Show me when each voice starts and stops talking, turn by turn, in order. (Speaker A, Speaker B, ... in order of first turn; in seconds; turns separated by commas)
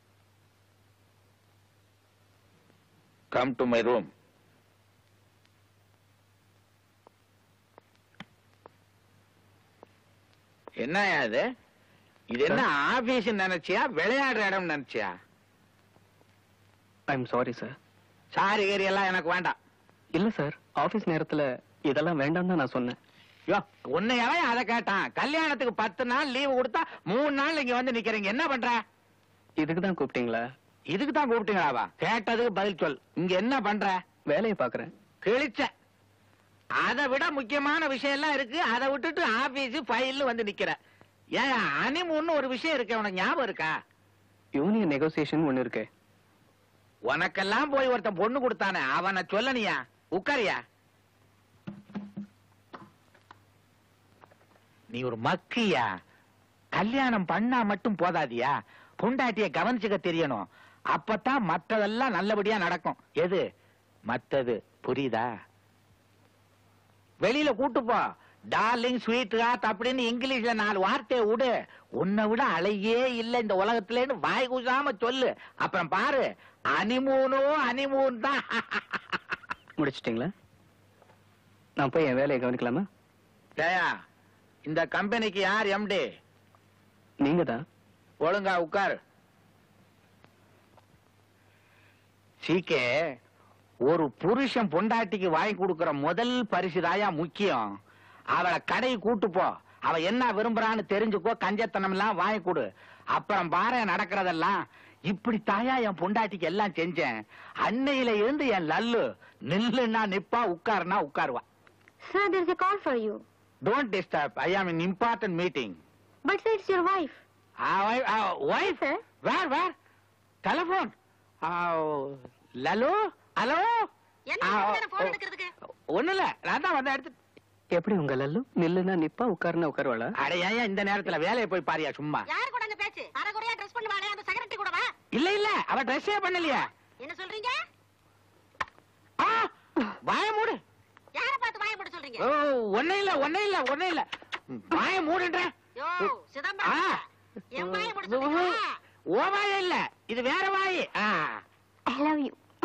Speaker A: 3.3-4.1, Speaker A: 10.8-11.4, Speaker A: 12.3-15.1, Speaker B: 17.1-17.8, Speaker A: 18.3-19.5, Speaker B: 20.1-23.0, Speaker A: 23.5-28.8, Speaker B: 29.6-30.4, Speaker A: 30.9-34.0, Speaker B: 34.3-34.9, Speaker A: 35.2-35.7, Speaker A: 36.8-40.8, Speaker A: 41.4-43.7, Speaker B: 44.6-45.9, Speaker A: 47.1-50.6, Speaker A: 55.0-55.8, Speaker A: 56.8-58.5, Speaker A: 59.0-63.4, Speaker A: 64.1-65.2, Speaker A: 67.2-68.0, Speaker A: 68.5-79.0, Speaker B: 79.8-80.3, Speaker B: 81.8-82.9, Speaker A: 83.6-83.9, Speaker A: 84.7-86.1, Speaker B: 87.2-87.6, Speaker A: 88.2-88.9, Speaker A: 92.4-92.8, Speaker A: 93.9-97.7, Speaker A: 98.3-104.5, Speaker A: 105.1-107.1, Speaker A: 107.7-111.4, Speaker C: 112.1-113.2, Speaker A: 113.7-115.8, Speaker C: 116.2-117.2, Speaker A: 117.7-119.7, Speaker A: 120.4-120.9, Speaker A: 121.5-123.9, Speaker D: 124.3-125.5, Speaker A: 124.4-125.2, Speaker A: 125.9-127.1, Speaker B: 127.8-130.1, Speaker A: 130.2-132.2, Speaker D: 132.3-134.9, Speaker A: 135.2-136.7, Speaker D: 137.0-137.6, Speaker A: 139.2-139.5, Speaker A: 140.1-140.6, Speaker D: 141.2-142.2, Speaker A: 142.2-145.5, Speaker D: 145.8-146.8, Speaker A: 146.6-146.9, Speaker D: 147.5-148.7, Speaker A: 147.7-148.5, Speaker A: 149.1-151.4, Speaker C: 152.0-152.2